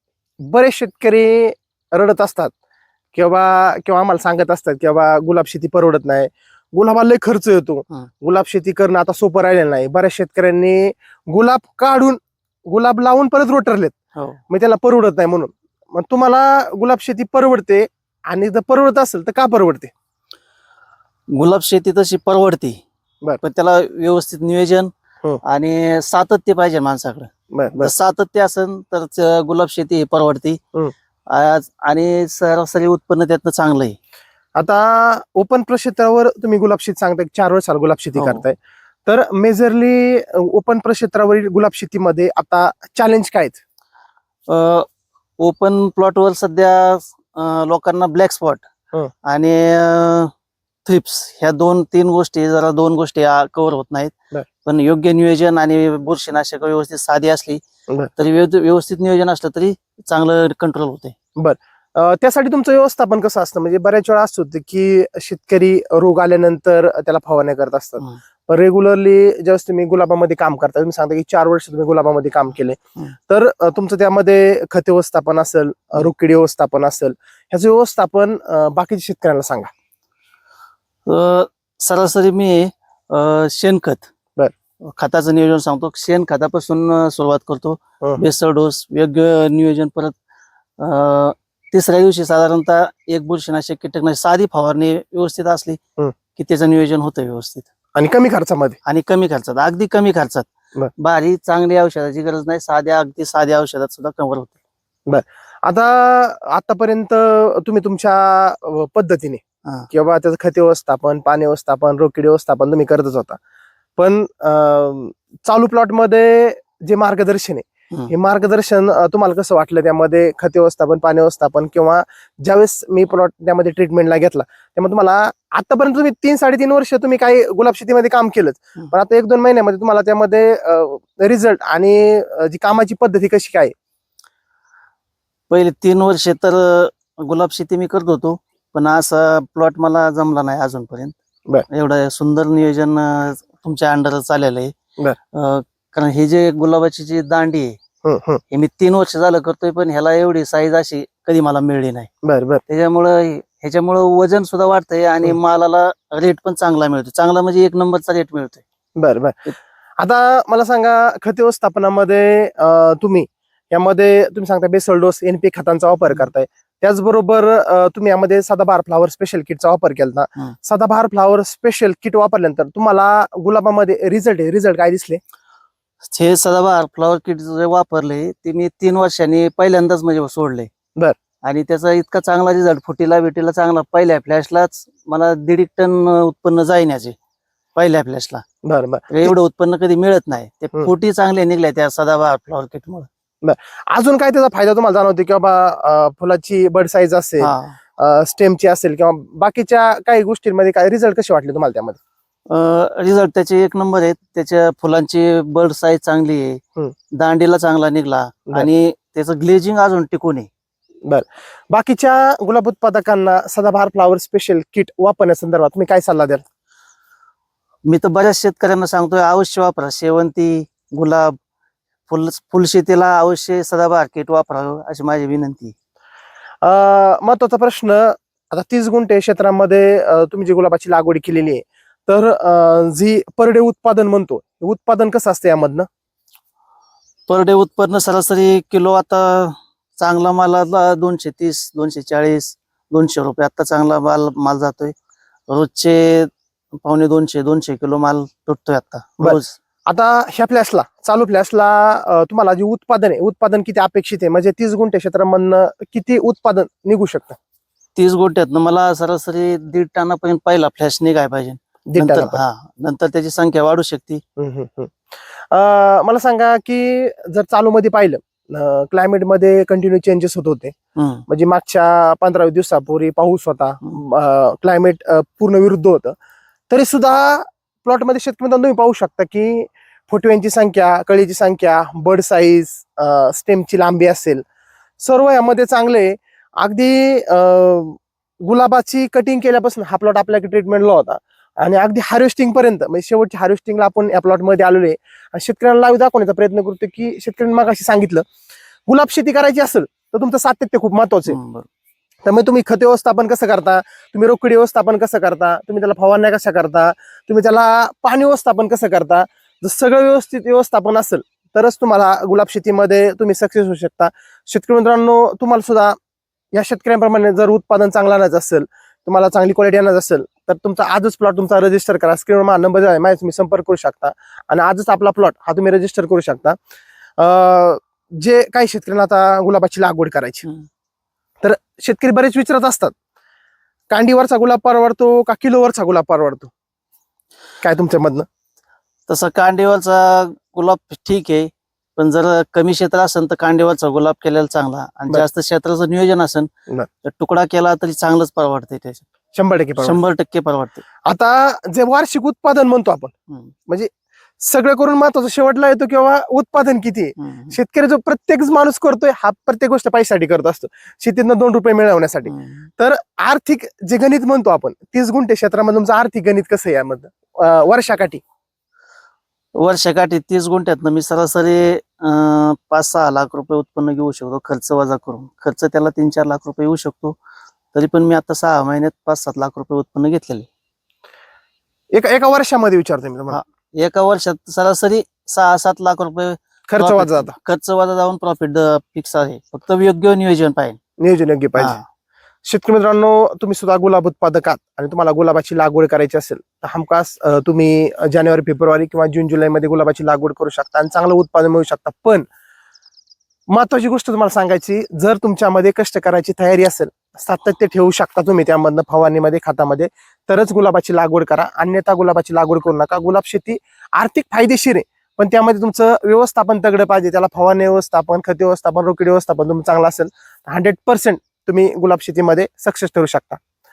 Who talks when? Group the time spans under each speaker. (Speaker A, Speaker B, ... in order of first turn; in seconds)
Speaker A: 0.4-2.5, 3.1-13.9, 14.5-19.9, 27.5-27.9, 34.6-43.6, 61.4-79.7, 98.0-98.8, 105.1-113.4, 114.0-133.7, 148.1-148.4, 152.2-152.6, 159.0-175.2, 188.7-189.3, 193.4-202.0, 211.1-216.4, 226.6-235.9, 249.2-257.4, 261.9-262.4, 264.4-270.8, 271.3-276.1, 276.7-284.4, 285.0-298.2, 298.9-301.4, 302.2-316.0, 316.5-326.6, 327.2-330.5, 331.4-332.9, 333.9-336.5, 337.6-338.3, 349.3-350.0, 351.1-353.1, 354.4-368.2, 381.9-383.4, 386.7-387.4, 391.0-391.8, 392.4-402.3, 403.5-423.4
Speaker B: 14.2-14.4, 21.3-22.8, 23.4-24.9, 25.4-30.6, 31.3-34.0, 38.2-38.4, 44.5-44.9, 45.4-48.6, 49.2-50.3, 50.9-57.6, 58.2-61.1, 81.1-84.1, 84.8-90.1, 90.8-95.8, 96.4-97.7, 98.9-100.5, 101.0-104.6, 135.5-141.2, 141.7-144.7, 145.3-147.8, 148.5-152.1, 152.7-158.6, 176.0-180.7, 181.4-187.2, 187.8-188.4, 189.1-193.1, 197.4-197.8, 202.5-206.6, 207.1-210.5, 217.9-221.3, 222.1-225.7, 237.3-244.9, 245.5-246.3, 246.8-249.6, 258.0-264.2, 271.0-271.2, 301.3-301.7, 339.1-346.5, 347.1-349.0, 349.8-350.8, 357.2-357.6, 362.3-362.7, 369.6-377.2, 377.7-380.5, 383.3-390.8, 391.6-391.8